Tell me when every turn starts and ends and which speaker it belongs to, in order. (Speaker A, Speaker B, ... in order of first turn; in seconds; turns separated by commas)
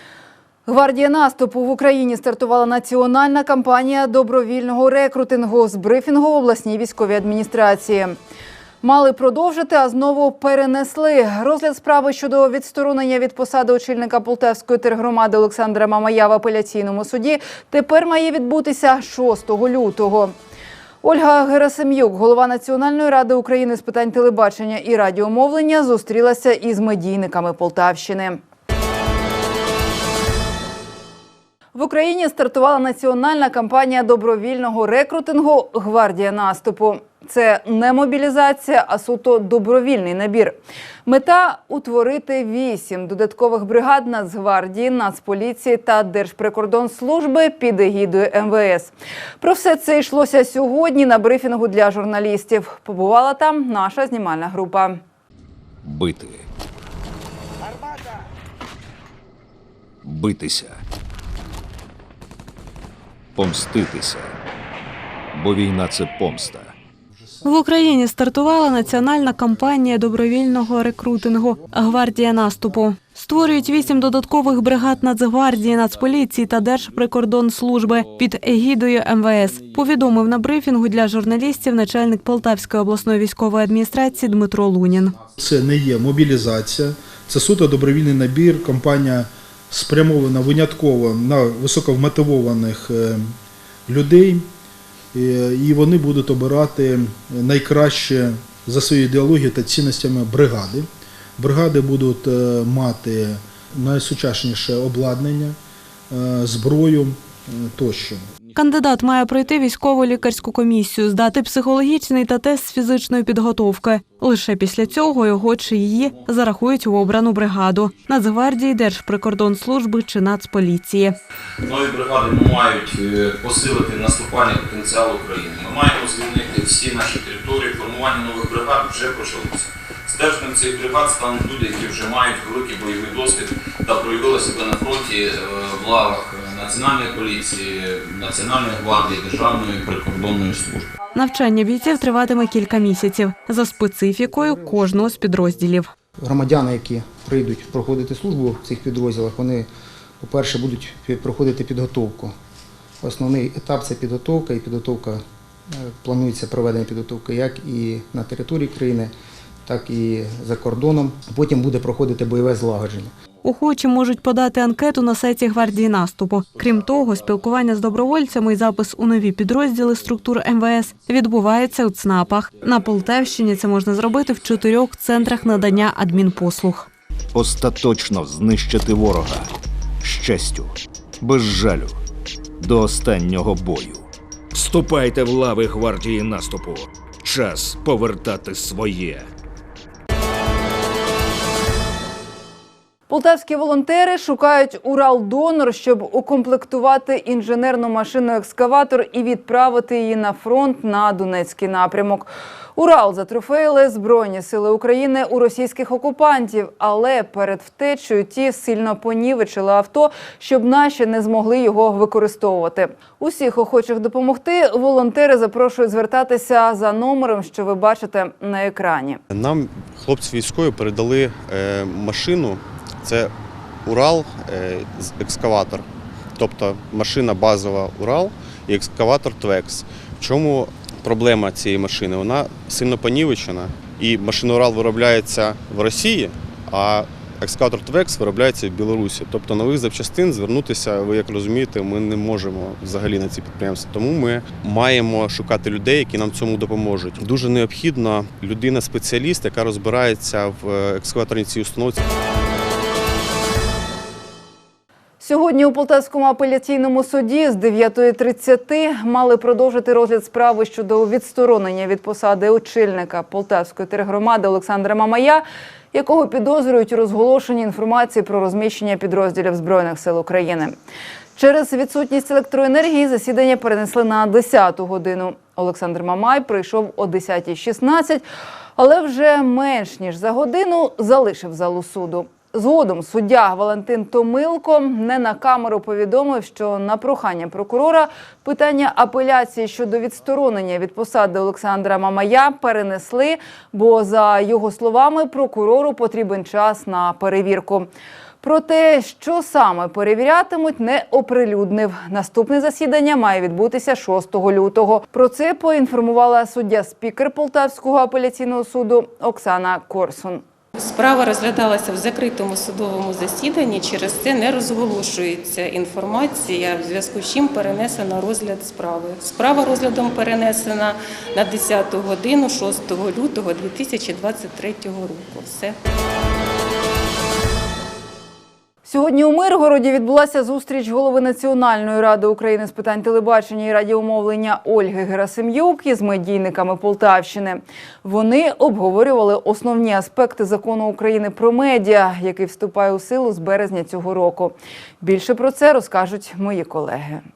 Speaker A: 0.7-8.2, Speaker A: 8.8-20.3, Speaker A: 21.0-28.4, Speaker A: 31.7-55.0, Speaker B: 55.8-56.4, Speaker B: 60.0-60.8, Speaker B: 63.4-64.3, Speaker B: 65.3-66.7, Speaker C: 67.4-85.1, Speaker D: 85.4-93.3, Speaker D: 93.9-94.5, Speaker D: 95.1-100.9, Speaker D: 101.4-105.6, Speaker D: 106.1-108.3, Speaker C: 108.6-121.1, Speaker E: 121.6-140.9, Speaker C: 141.1-145.9, Speaker F: 144.4-145.0, Speaker F: 146.2-149.7, Speaker F: 150.2-152.3, Speaker F: 153.0-159.1, Speaker F: 159.7-163.1, Speaker C: 163.4-176.9, Speaker B: 177.3-179.5, Speaker B: 180.0-182.0, Speaker B: 182.6-189.3, Speaker A: 193.1-219.2, Speaker G: 219.3-223.3, Speaker G: 223.8-252.0, Speaker A: 255.2-270.8, Speaker A: 271.4-278.2, Speaker A: 278.8-297.9, Speaker A: 298.4-310.4, Speaker H: 310.8-325.8, Speaker A: 328.9-347.2